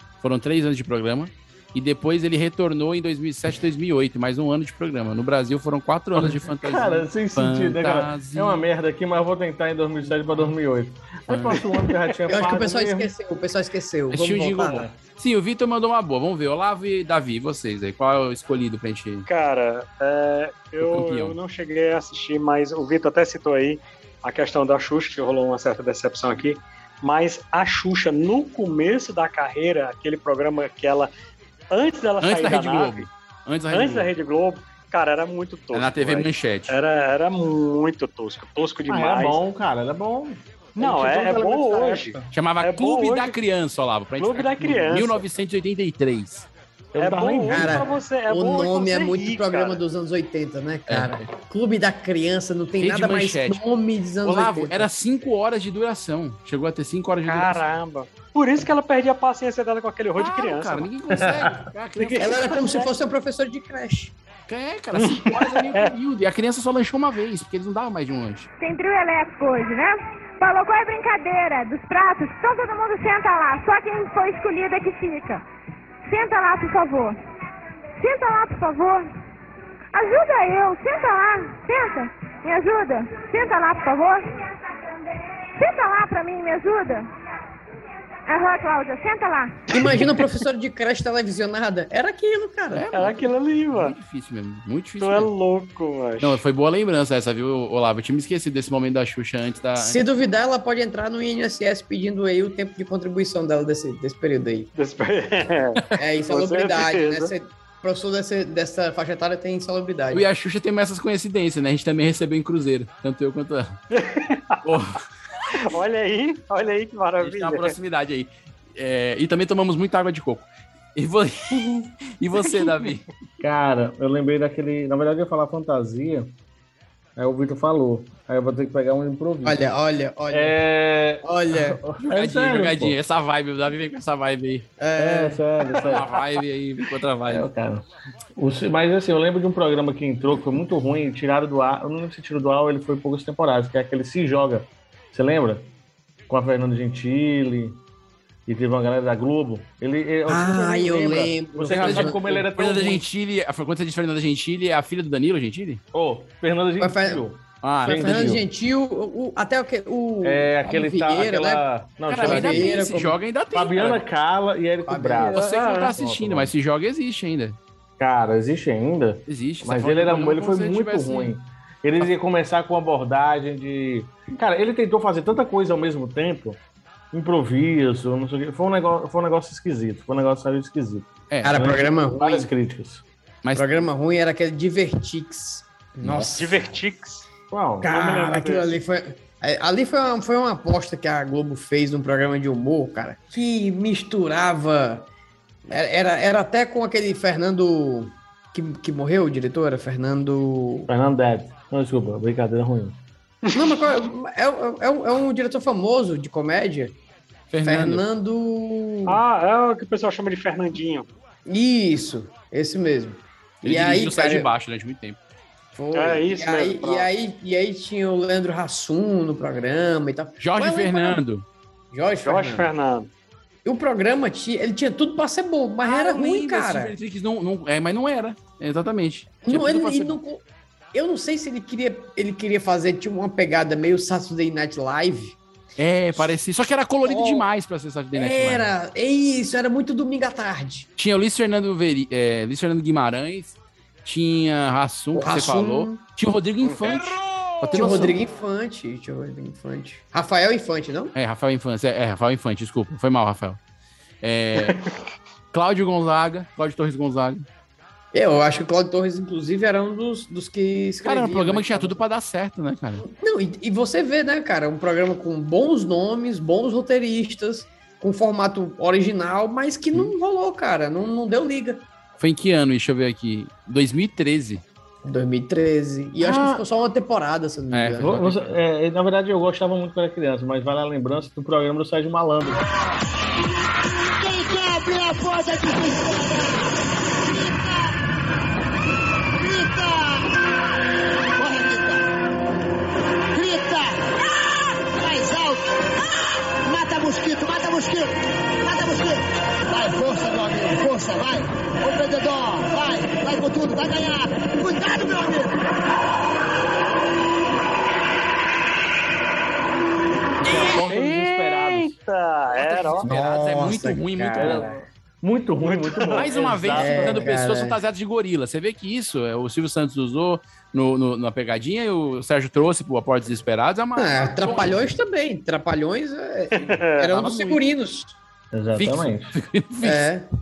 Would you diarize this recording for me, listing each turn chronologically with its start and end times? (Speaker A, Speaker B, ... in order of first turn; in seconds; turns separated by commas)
Speaker A: 0.2-8.7, Speaker B: 6.2-13.1, Speaker A: 11.3-11.6, Speaker C: 12.3-14.9, Speaker A: 14.1-19.3, Speaker D: 19.3-31.1, Speaker A: 20.8-21.4, Speaker D: 31.7-33.1, Speaker A: 32.2-34.1, Speaker D: 33.7-39.4, Speaker A: 35.7-36.8, Speaker B: 38.9-42.3, Speaker D: 40.8-43.4, Speaker A: 42.3-46.5, Speaker D: 44.2-45.2, Speaker B: 46.9-47.8, Speaker D: 47.0-49.8, Speaker C: 47.5-54.9, Speaker A: 50.9-51.3, Speaker A: 52.8-53.6, Speaker A: 54.2-57.6, Speaker D: 57.3-60.9, Speaker A: 60.2-62.5, Speaker B: 61.1-61.7, Speaker D: 62.0-62.9, Speaker C: 62.2-64.1, Speaker A: 64.5-68.5, Speaker D: 65.0-65.9, Speaker E: 68.6-75.4, Speaker E: 76.1-77.2, Speaker E: 78.0-79.1, Speaker E: 79.9-84.5, Speaker E: 85.5-87.1, Speaker E: 88.3-89.6, Speaker C: 89.7-92.9, Speaker D: 89.8-90.1, Speaker A: 92.7-95.3, Speaker D: 92.9-94.0, Speaker D: 95.0-96.4, Speaker A: 96.2-100.0, Speaker C: 99.8-104.7, Speaker D: 104.8-107.3, Speaker C: 106.0-110.2, Speaker A: 110.1-113.8, Speaker D: 113.9-114.6, Speaker A: 114.6-115.0, Speaker D: 115.7-117.7, Speaker A: 117.2-123.1, Speaker B: 123.4-126.3, Speaker B: 127.2-129.6, Speaker C: 129.4-130.6, Speaker B: 130.3-133.0, Speaker C: 131.2-131.8, Speaker A: 132.1-134.7, Speaker C: 134.8-135.4, Speaker B: 135.0-136.1, Speaker A: 135.8-137.5, Speaker B: 137.3-137.8, Speaker B: 138.4-145.7, Speaker B: 146.3-147.8, Speaker B: 148.5-153.1, Speaker C: 150.3-152.4, Speaker A: 151.7-155.8, Speaker B: 155.9-158.4, Speaker C: 156.8-157.2, Speaker A: 157.6-158.3, Speaker C: 157.8-161.6, Speaker B: 160.2-162.8, Speaker A: 162.1-164.1, Speaker C: 162.2-163.2, Speaker B: 163.5-166.5, Speaker C: 164.9-165.5, Speaker A: 165.3-167.6, Speaker B: 168.0-176.6, Speaker A: 169.3-171.4, Speaker B: 177.1-183.0, Speaker A: 181.3-181.8, Speaker C: 181.4-182.5, Speaker A: 183.4-183.8, Speaker C: 183.6-186.4, Speaker A: 186.0-186.7, Speaker D: 186.3-187.3, Speaker B: 187.5-187.9, Speaker C: 187.8-195.1, Speaker D: 187.8-188.7, Speaker C: 195.7-200.9, Speaker B: 200.9-203.0, Speaker D: 203.5-203.8, Speaker C: 203.5-206.9, Speaker A: 207.5-208.0, Speaker C: 207.6-209.2, Speaker D: 209.1-211.1, Speaker C: 211.5-214.5, Speaker A: 213.6-215.2, Speaker C: 215.8-221.2, Speaker D: 215.9-217.1, Speaker A: 220.4-221.4, Speaker C: 221.9-222.7, Speaker D: 222.2-223.1, Speaker C: 223.7-226.9, Speaker A: 225.8-230.2, Speaker C: 229.4-230.4, Speaker C: 230.9-235.4, Speaker A: 235.8-238.7, Speaker C: 237.1-237.5, Speaker C: 238.1-240.9, Speaker A: 241.0-248.2, Speaker C: 245.2-246.0, Speaker C: 247.7-251.1, Speaker A: 251.2-253.6, Speaker A: 254.2-254.8, Speaker A: 255.5-257.5, Speaker C: 258.1-262.0, Speaker A: 261.0-263.1, Speaker C: 263.0-271.8, Speaker A: 272.2-274.6, Speaker C: 275.1-278.2, Speaker B: 276.2-276.6, Speaker A: 277.7-278.6, Speaker B: 278.0-282.6, Speaker F: 284.0-286.6, Speaker F: 287.2-287.9, Speaker F: 289.3-290.3, Speaker F: 291.4-292.1, Speaker F: 293.3-294.2, Speaker F: 294.9-295.7, Speaker F: 296.6-305.5, Speaker B: 310.4-311.9, Speaker D: 310.9-313.1, Speaker A: 312.7-314.6, Speaker C: 313.0-314.6, Speaker B: 314.4-317.4, Speaker D: 315.6-316.3, Speaker A: 316.1-324.8, Speaker C: 316.7-317.8, Speaker C: 324.0-328.2, Speaker D: 326.6-327.1, Speaker A: 327.1-327.6, Speaker B: 328.5-329.4, Speaker A: 328.8-330.1, Speaker C: 329.8-330.3